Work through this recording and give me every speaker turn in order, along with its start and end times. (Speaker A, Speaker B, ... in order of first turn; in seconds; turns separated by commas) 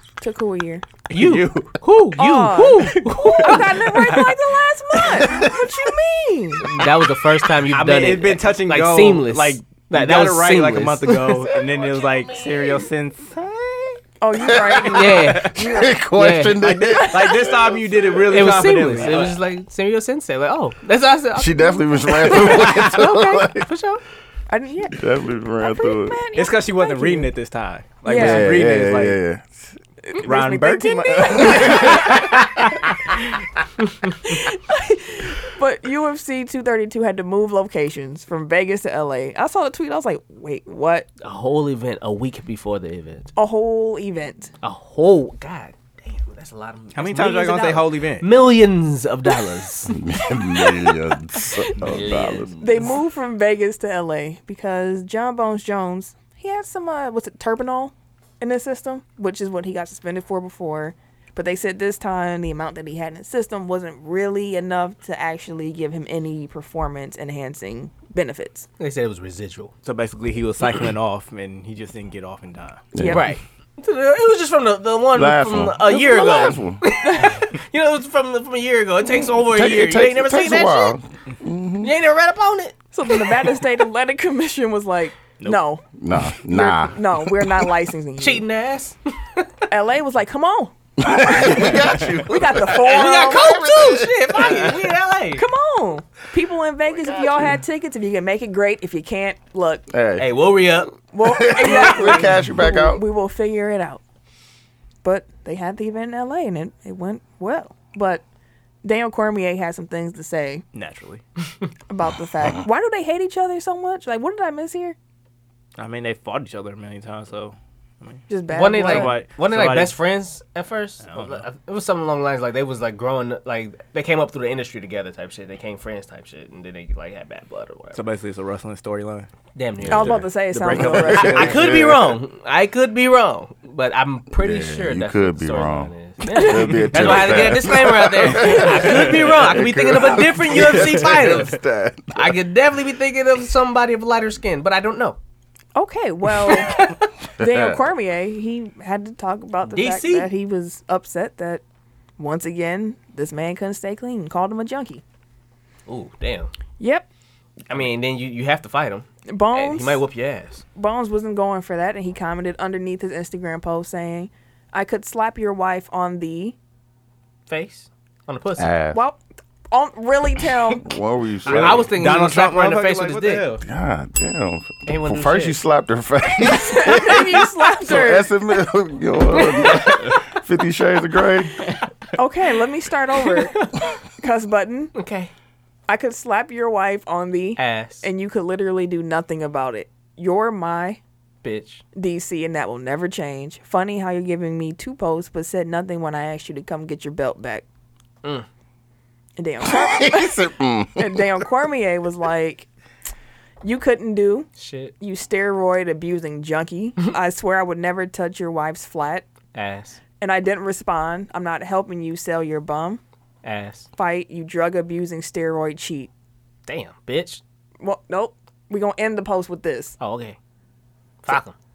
Speaker A: 0.2-0.8, Speaker B: 1.1-1.8, Speaker C: 1.1-4.2, Speaker A: 2.2-6.7, Speaker B: 3.0-4.3, Speaker B: 4.9-5.3, Speaker C: 6.7-11.4, Speaker B: 7.7-14.0, Speaker A: 14.2-16.0, Speaker D: 14.4-18.3, Speaker C: 14.9-15.5, Speaker B: 15.0-15.7, Speaker C: 16.1-16.6, Speaker A: 16.9-17.4, Speaker B: 16.9-19.3, Speaker C: 18.3-24.0, Speaker D: 21.4-23.7, Speaker A: 24.5-27.3, Speaker D: 24.9-26.2, Speaker B: 26.4-29.2, Speaker A: 28.1-28.5, Speaker D: 28.1-29.7, Speaker A: 30.0-32.4, Speaker B: 30.2-32.3, Speaker D: 31.3-32.4, Speaker A: 34.2-41.1, Speaker C: 41.2-43.3, Speaker A: 43.4-44.5, Speaker C: 44.6-50.0, Speaker B: 46.9-48.3, Speaker D: 49.9-52.5, Speaker A: 50.5-51.7, Speaker C: 51.8-52.9, Speaker A: 52.6-68.7, Speaker C: 68.8-69.7, Speaker B: 69.8-72.8, Speaker D: 72.9-73.3, Speaker A: 73.0-73.3, Speaker C: 73.1-81.0, Speaker D: 75.1-76.8, Speaker A: 77.0-77.4, Speaker D: 79.5-81.9, Speaker C: 81.8-83.4, Speaker A: 82.9-85.8, Speaker D: 86.0-87.7, Speaker A: 86.5-88.5, Speaker C: 88.2-89.5, Speaker A: 89.7-93.6, Speaker D: 91.0-94.9, Speaker C: 92.7-95.5, Speaker A: 95.3-99.8, Speaker D: 97.1-97.5, Speaker D: 99.9-100.3, Speaker C: 100.2-101.0, Speaker A: 101.1-104.0, Speaker D: 101.2-103.0, Speaker C: 101.6-102.2, Speaker A: 105.0-108.2, Speaker A: 108.8-110.6, Speaker B: 110.7-111.2, Speaker A: 111.9-115.0, Speaker B: 115.8-120.0, Speaker A: 118.3-119.2, Speaker C: 118.5-128.0, Speaker B: 121.0-121.4, Speaker B: 127.9-129.3, Speaker C: 129.6-130.3, Speaker D: 129.8-132.2, Speaker A: 129.9-131.7, Speaker B: 130.5-131.6, Speaker C: 131.1-141.6, Speaker D: 134.4-142.4, Speaker A: 136.3-137.4, Speaker A: 138.3-138.8, Speaker C: 142.1-145.2, Speaker A: 145.8-151.6, Speaker C: 146.5-146.8, Speaker D: 147.4-147.8, Speaker C: 149.7-150.3, Speaker A: 152.2-155.0, Speaker C: 155.9-156.5, Speaker A: 156.8-157.1, Speaker C: 157.7-160.6, Speaker A: 159.3-160.0, Speaker A: 160.8-166.6, Speaker C: 167.5-168.7, Speaker D: 168.6-169.0, Speaker A: 168.9-169.2, Speaker A: 169.7-170.9, Speaker D: 170.8-171.9, Speaker C: 171.4-173.5, Speaker B: 171.5-173.6, Speaker D: 173.6-181.6, Speaker C: 174.9-175.6, Speaker A: 176.5-178.3, Speaker C: 179.3-180.2, Speaker A: 182.2-184.9, Speaker C: 185.0-185.3, Speaker A: 185.9-191.0, Speaker C: 187.6-188.1, Speaker C: 191.4-191.8, Speaker A: 191.9-197.7, Speaker A: 199.4-200.5, Speaker D: 199.6-201.5, Speaker A: 201.0-202.7, Speaker A: 203.6-204.5, Speaker C: 204.6-204.9, Speaker A: 205.0-209.3, Speaker C: 209.5-210.0, Speaker A: 210.2-213.0, Speaker C: 213.4-213.9, Speaker A: 214.0-216.1, Speaker C: 216.7-217.4, Speaker A: 217.8-219.9, Speaker C: 220.0-220.4, Speaker C: 221.2-221.5